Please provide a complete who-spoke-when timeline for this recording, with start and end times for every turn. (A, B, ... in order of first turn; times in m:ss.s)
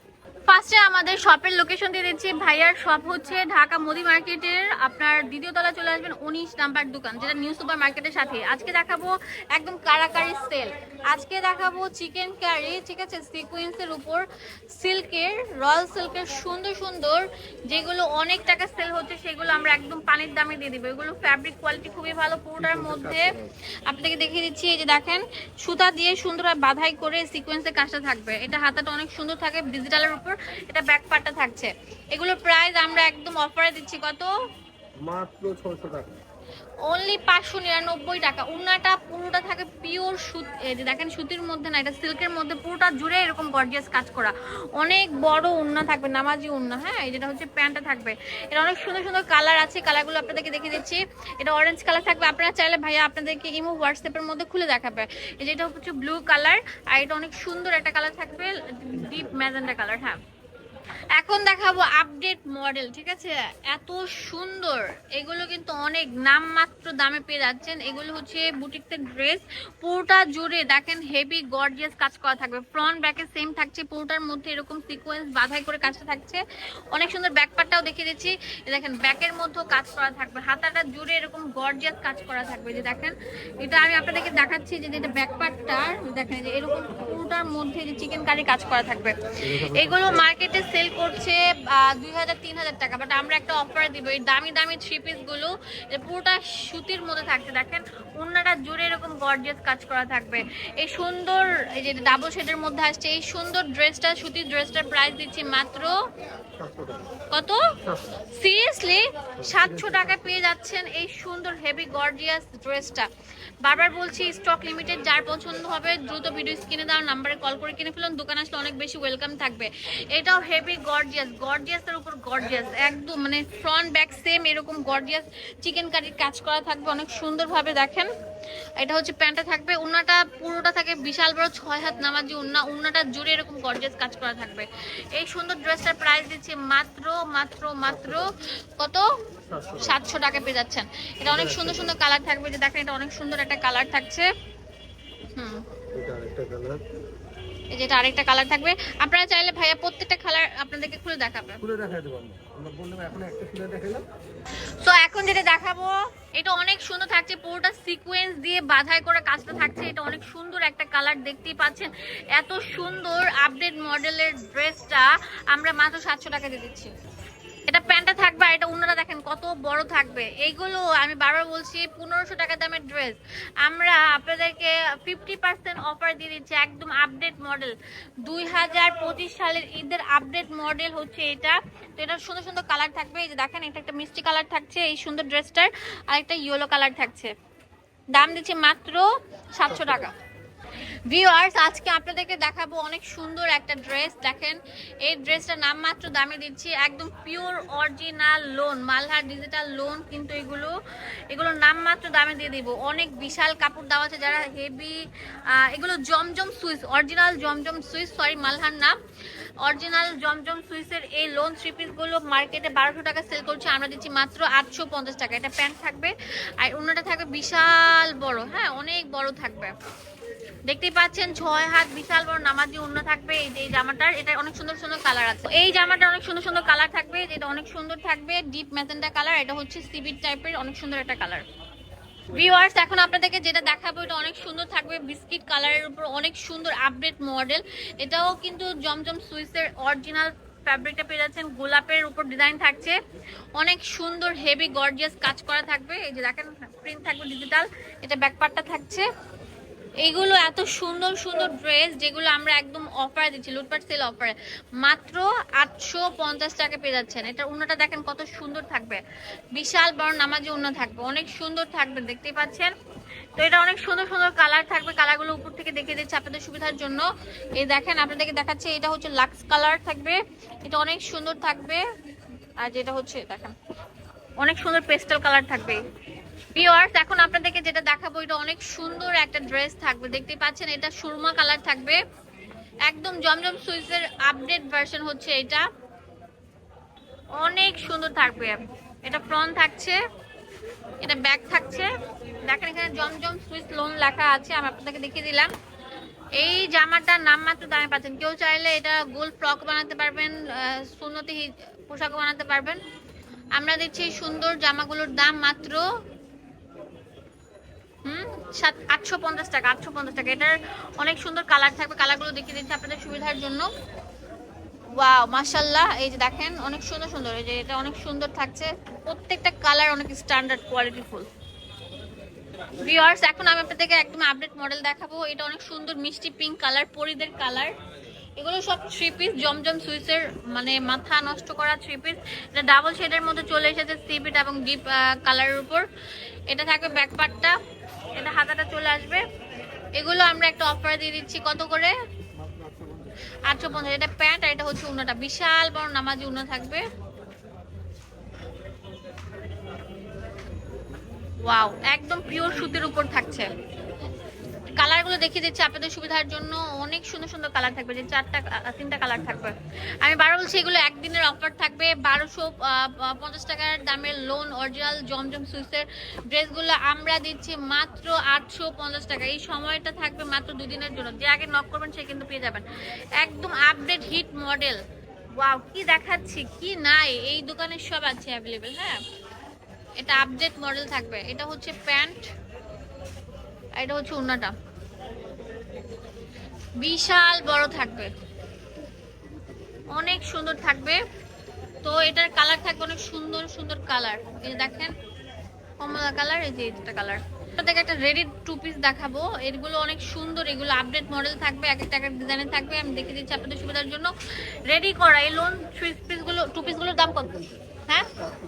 0:00.5-0:23.4 A
0:22.6-0:23.5 B
0:23.9-0:34.3 A
0:35.0-0:36.1 B
0:36.9-1:00.2 A
1:01.2-1:46.0 A
1:29.4-1:30.2 B
1:46.6-1:47.1 B
1:47.3-1:47.6 A
1:47.9-1:48.2 B
1:48.3-1:53.1 A
1:49.4-1:50.0 B
1:53.6-2:08.1 A
2:08.8-2:19.1 A
2:19.5-2:20.0 B
2:19.8-2:24.3 A
2:21.3-2:21.9 B
2:25.4-2:25.6 A
2:25.9-2:26.8 B
2:27.7-2:31.6 A
2:31.6-2:34.1 B
2:34.8-2:46.9 A
2:47.7-3:07.3 A
3:08.1-3:10.2 A
3:11.1-3:20.8 A
3:21.3-3:29.0 A
3:29.6-3:39.7 A
3:40.7-3:51.4 A
3:52.3-4:03.0 A
4:03.6-4:09.1 A
4:10.0-4:19.0 A
4:19.6-4:22.7 A
4:23.4-4:31.8 A
4:32.6-4:33.5 A
4:34.4-4:35.8 A
4:36.6-4:42.0 A
4:42.9-4:45.7 A
4:47.4-4:50.0 A
4:51.0-4:51.9 A
4:52.5-4:55.5 A
4:56.4-5:02.8 A
5:03.6-5:05.9 A
5:08.0-5:13.7 A
5:15.0-5:21.3 A
5:22.8-5:27.8 A
5:28.4-5:35.9 A
5:36.5-5:37.6 A
5:38.2-5:39.2 A
5:40.0-5:41.9 A
5:43.5-5:46.8 A
5:51.4-5:53.5 A
5:54.8-6:12.6 A
6:13.2-6:14.8 A
6:15.4-6:19.0 A
6:20.0-6:22.3 A
6:23.8-6:24.5 A
6:26.8-6:28.1 A
6:29.9-6:31.0 A
6:31.8-6:34.9 A
6:35.8-6:44.1 A
6:44.7-6:48.1 A